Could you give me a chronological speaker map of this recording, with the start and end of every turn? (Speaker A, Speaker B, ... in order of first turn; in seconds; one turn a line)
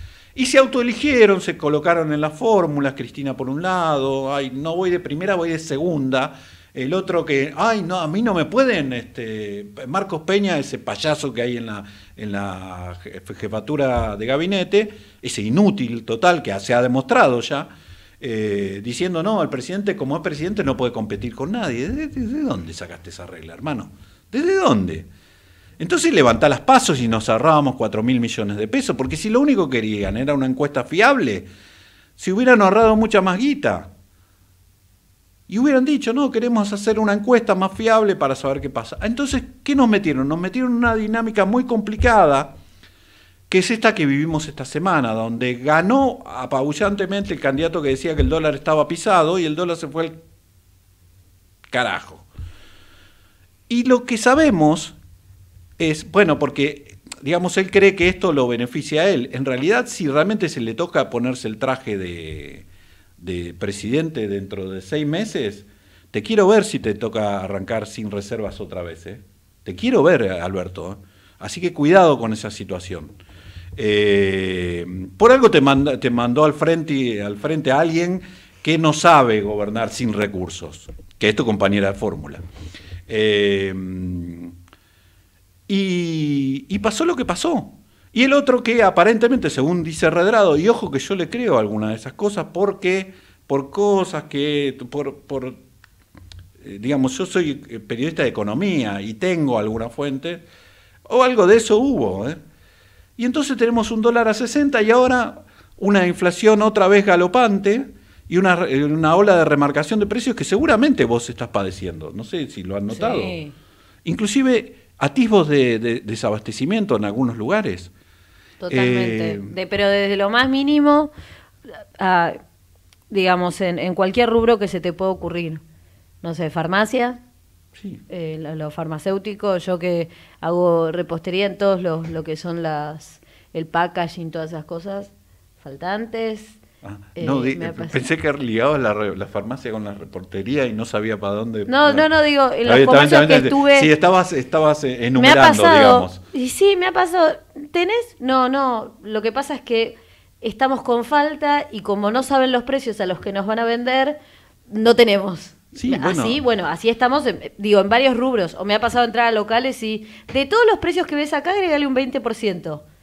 Speaker A: 0.3-25.1
Speaker A: 25.8-31.5
Speaker A: 32.2-33.9
Speaker A: 35.5-42.6
Speaker A: 43.5-50.2
Speaker A: 51.7-52.3
Speaker A: 53.7-55.0
Speaker A: 55.8-62.6
Speaker A: 63.2-73.2
Speaker A: 73.7-82.4
Speaker A: 83.1-84.5
Speaker A: 85.7-95.6
Speaker A: 96.6-100.5
Speaker A: 101.0-102.4
Speaker A: 103.2-113.4
Speaker B: 112.9-113.5
Speaker A: 114.0-117.9
Speaker B: 118.6-121.1
Speaker A: 118.7-119.5
Speaker B: 122.0-122.4
Speaker B: 123.1-125.6
Speaker B: 126.2-127.2
Speaker A: 127.7-128.0
Speaker B: 128.1-135.1
Speaker B: 135.6-136.6
Speaker A: 136.8-142.1
Speaker B: 137.2-138.1
Speaker B: 141.7-143.9
Speaker A: 142.6-146.2
Speaker B: 145.2-154.2
Speaker B: 154.7-162.8
Speaker A: 155.7-156.4